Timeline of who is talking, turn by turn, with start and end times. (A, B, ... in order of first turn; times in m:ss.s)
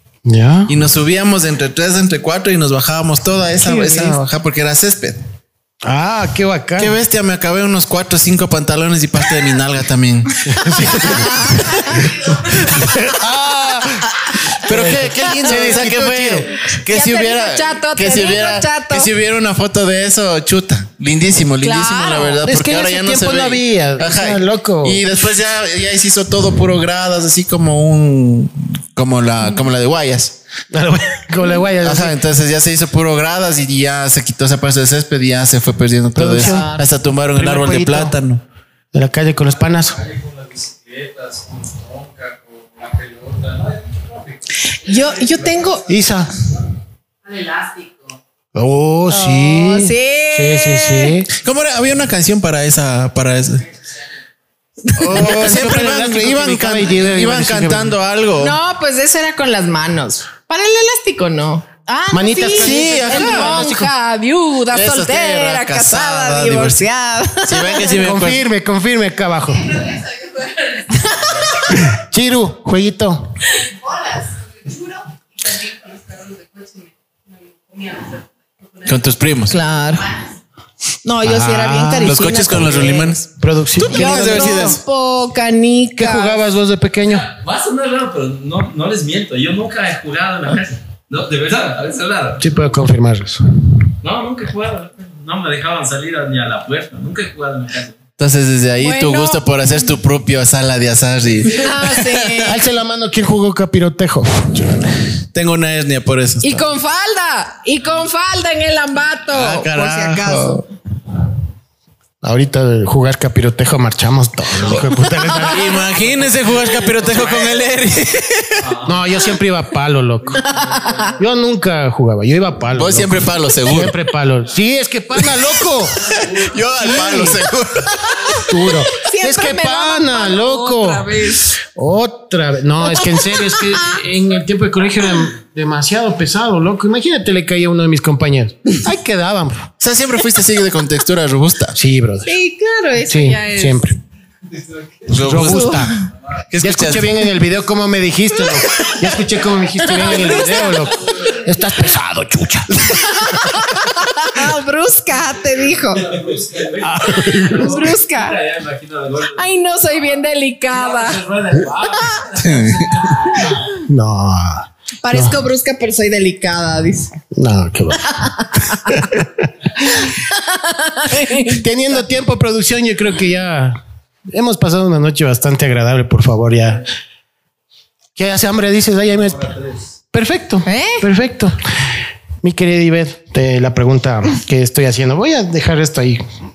0:00.2-0:00.7 A
0:00.7-0:05.2 B
0:03.6-0:04.2 C
0:05.8-0:07.0 A
0:06.8-0:13.0 B
0:10.4-0:11.4 A
0:11.0-0:12.1 C
0:12.7-0:16.5 A
0:14.5-0:30.4 B
0:16.5-0:19.1 C
0:21.6-0:22.4 C
0:22.4-0:25.0 A
0:30.7-0:32.2 A
0:31.8-0:38.4 B
0:36.1-0:36.7 A
0:36.4-0:36.8 C
0:37.3-0:38.1 A
0:38.9-0:40.0 A
0:39.8-0:44.4 D
0:44.7-0:45.9 C
0:45.1-0:45.8 D
0:45.9-0:46.3 A
0:47.2-0:48.1 E
0:48.5-0:51.3 A
0:49.1-0:51.2 C
0:51.3-0:53.6 B
0:54.8-0:55.3 C
0:55.0-0:58.6 B
0:55.1-0:58.0 A
0:58.4-1:08.0 C
1:02.1-1:03.9 A
1:02.5-1:03.6 B
1:04.7-1:06.8 B
1:07.4-1:08.4 B
1:08.0-1:09.8 A
1:09.6-1:11.3 E
1:10.9-1:11.8 C
1:11.7-1:13.4 A
1:13.5-1:19.0 E
1:18.8-1:19.6 B
1:19.5-1:20.1 C
1:21.0-1:23.2 C
1:21.2-1:22.2 A
1:22.0-1:24.8 B
1:23.3-1:24.8 A
1:23.8-1:26.4 C
1:26.0-1:27.3 A
1:27.1-1:32.5 D
1:32.4-1:33.4 A
1:34.0-1:38.0 D
1:38.2-1:42.4 B
1:38.8-1:39.4 C
1:41.5-1:42.6 C
1:42.4-1:44.8 A
1:45.3-1:46.7 B
1:46.4-1:50.6 C
1:49.3-1:50.6 B
1:52.2-1:55.8 A
1:55.4-1:58.7 B
1:55.6-1:57.4 D
1:58.6-1:59.0 D
1:58.8-2:00.4 A
2:00.2-2:01.2 D
2:00.4-2:01.2 C
2:01.2-2:06.2 A
2:02.8-2:04.0 B
2:05.3-2:08.5 B
2:06.1-2:06.5 D
2:06.8-2:07.5 A
2:08.4-2:19.7 A
2:08.8-2:11.6 C
2:13.0-2:14.0 C
2:19.8-2:21.8 B
2:21.7-2:22.3 A
2:22.2-2:23.9 C
2:23.0-2:24.0 A
2:24.5-2:25.2 D
2:25.1-2:25.9 B
2:25.1-2:25.9 A
2:25.3-2:25.9 C
2:26.5-2:27.2 B
2:26.6-2:33.3 A
2:29.8-2:30.9 C
2:30.0-2:31.4 D
2:32.9-2:36.1 C
2:35.9-2:39.4 D
2:36.8-2:37.9 A
2:37.5-2:38.4 C
2:39.3-2:41.3 C
2:40.7-2:43.7 D
2:41.9-2:42.3 C
2:42.4-2:42.9 B
2:43.7-2:45.4 A
2:45.0-2:47.1 C
2:47.3-2:48.0 A
2:48.0-2:49.1 C
2:49.0-2:50.1 A
2:50.1-2:51.6 C
2:51.4-2:56.9 A
2:58.2-2:59.5 A
2:59.1-2:59.9 D
3:00.1-3:01.6 A
3:00.6-3:01.0 C
3:02.4-3:06.2 A